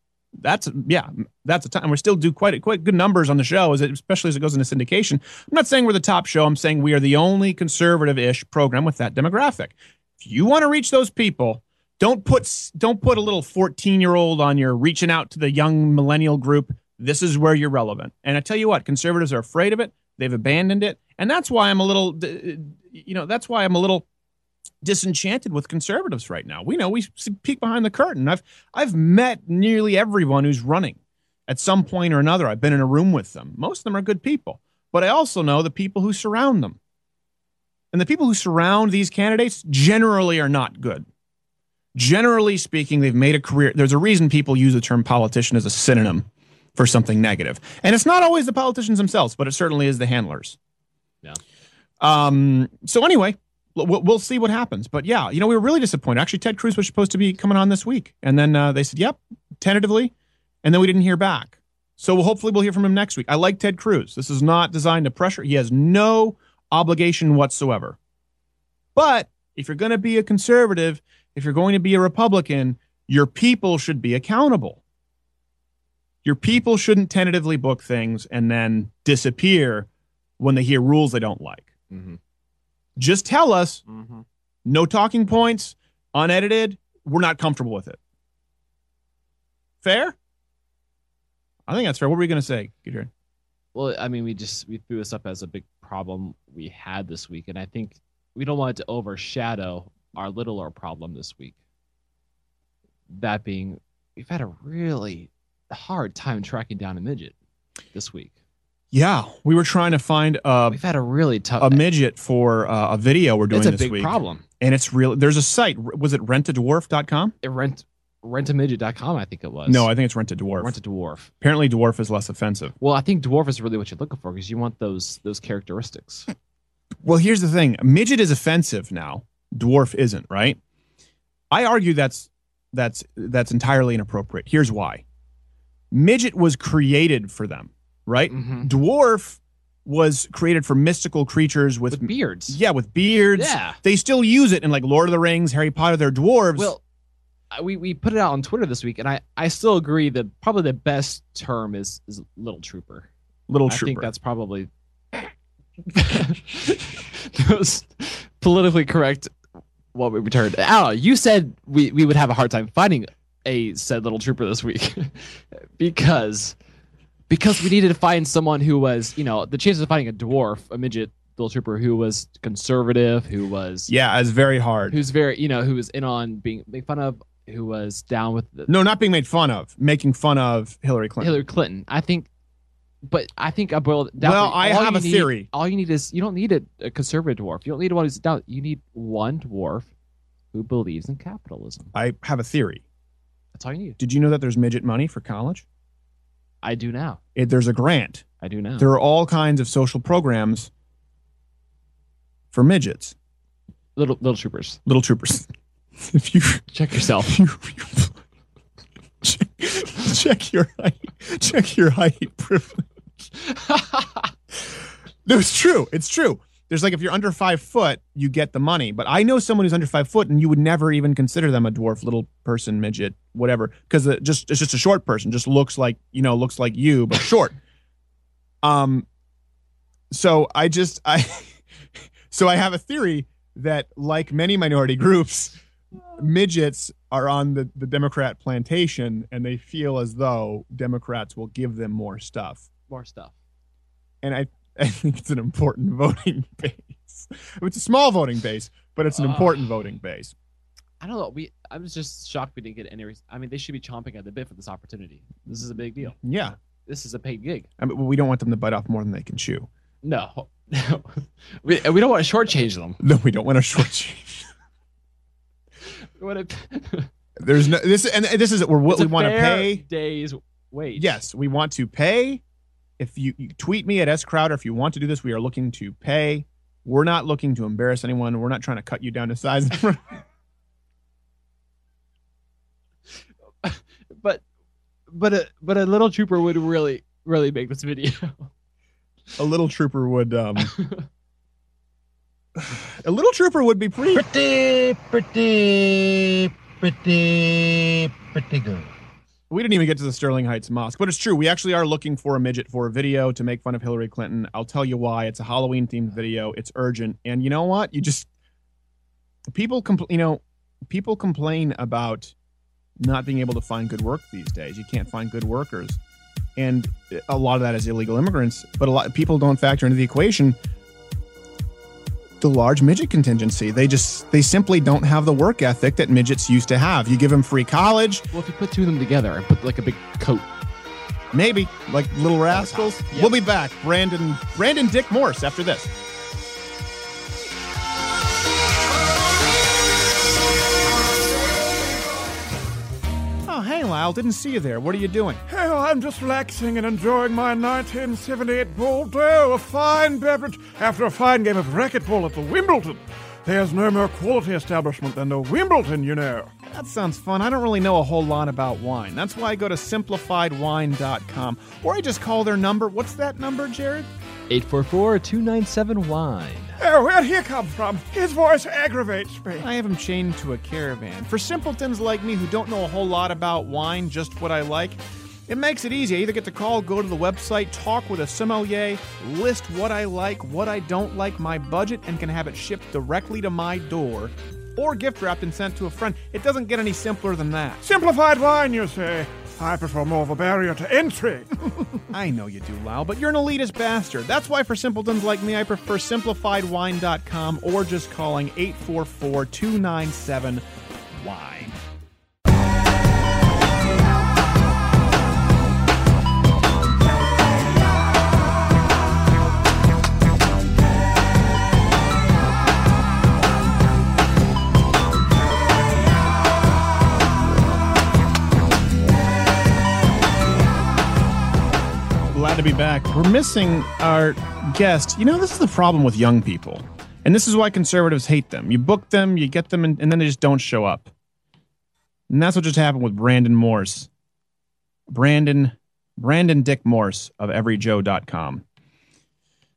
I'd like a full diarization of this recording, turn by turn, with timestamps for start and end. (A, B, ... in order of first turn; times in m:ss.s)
0:00.4-0:24.0 A
0:24.8-0:36.8 A
0:37.9-0:41.0 A
0:41.9-0:50.6 A
0:52.0-1:00.1 A
1:00.6-1:08.0 A
1:08.9-1:14.8 A
1:16.2-1:19.9 A
1:20.4-1:21.7 A
1:21.9-1:22.2 B
1:23.0-1:23.8 A
1:23.9-1:24.2 B
1:24.6-1:28.0 A
1:29.8-1:30.2 A
1:31.7-1:33.1 A
1:33.7-1:41.6 B
1:43.1-1:47.3 B
1:47.9-1:48.3 B
1:48.9-1:50.8 A
1:50.7-1:51.8 B
1:51.6-1:57.3 A
1:53.5-1:54.4 B
1:57.4-1:59.9 B
1:59.6-2:00.7 A
2:00.6-2:01.3 B
2:01.4-2:02.7 A
2:02.8-2:06.3 B
2:07.0-2:10.6 A
2:11.5-2:15.0 A
2:15.9-2:26.7 A
2:18.3-2:18.7 B
2:21.9-2:22.6 B
2:23.3-2:23.8 B
2:26.6-2:26.8 B
2:27.5-2:33.1 B
2:33.5-2:34.1 A
2:33.7-2:34.7 B
2:35.9-2:39.3 B
2:39.9-2:46.6 B
2:47.3-2:53.9 B
2:53.9-2:55.0 A
2:54.9-2:58.7 B
2:58.7-3:01.4 A
3:01.2-3:02.3 B
3:03.0-3:09.9 B
3:04.2-3:05.5 A
3:10.5-3:11.9 B
3:11.9-3:12.8 A
3:13.5-3:14.0 B
3:14.0-3:15.6 A
3:16.6-3:17.2 B
3:17.4-3:18.2 A
3:18.4-3:18.9 B
3:18.8-3:20.7 A
3:22.5-3:23.1 A
3:24.0-3:24.8 B
3:24.8-3:25.5 A
3:26.0-3:26.6 A
3:26.7-3:27.3 B
3:27.2-3:28.2 A
3:29.2-3:32.8 A
3:33.6-3:34.2 B
3:35.2-3:47.6 A
3:48.6-3:49.0 A
3:50.1-3:51.6 A
3:52.3-3:55.6 A
3:56.2-4:02.7 A
4:02.9-4:03.3 B
4:04.2-4:10.3 A
4:09.1-4:09.6 B
4:11.0-4:16.2 B
4:16.2-4:16.6 A
4:16.8-4:17.7 B
4:17.8-4:19.7 A
4:20.0-4:23.0 B
4:23.0-4:24.4 A
4:26.2-4:27.1 B
4:27.4-4:29.8 A
4:28.9-4:31.2 B
4:30.9-4:32.4 A
4:33.0-4:40.2 A
4:43.6-4:44.4 B
4:45.1-4:48.5 B
4:49.4-4:50.7 A
4:50.7-4:51.0 B
4:52.7-4:54.3 A
4:54.4-4:58.8 C
4:59.5-5:08.3 A
5:09.5-5:12.3 A
5:13.0-5:16.0 A
5:16.6-5:20.6 A
5:22.4-5:28.2 A
5:28.3-5:30.5 B
5:31.3-5:35.9 A
5:32.5-5:33.3 B
5:43.4-5:45.4 A
5:45.5-5:56.5 D
5:56.7-6:04.1 A
6:04.5-6:06.8 B
6:06.8-6:09.7 D
6:09.6-6:27.8 A
6:27.8-6:31.5 D
6:32.1-6:40.6 A
6:41.1-6:41.8 A
7:02.3-7:11.1 A
7:12.3-7:14.1 A
7:15.1-7:18.6 A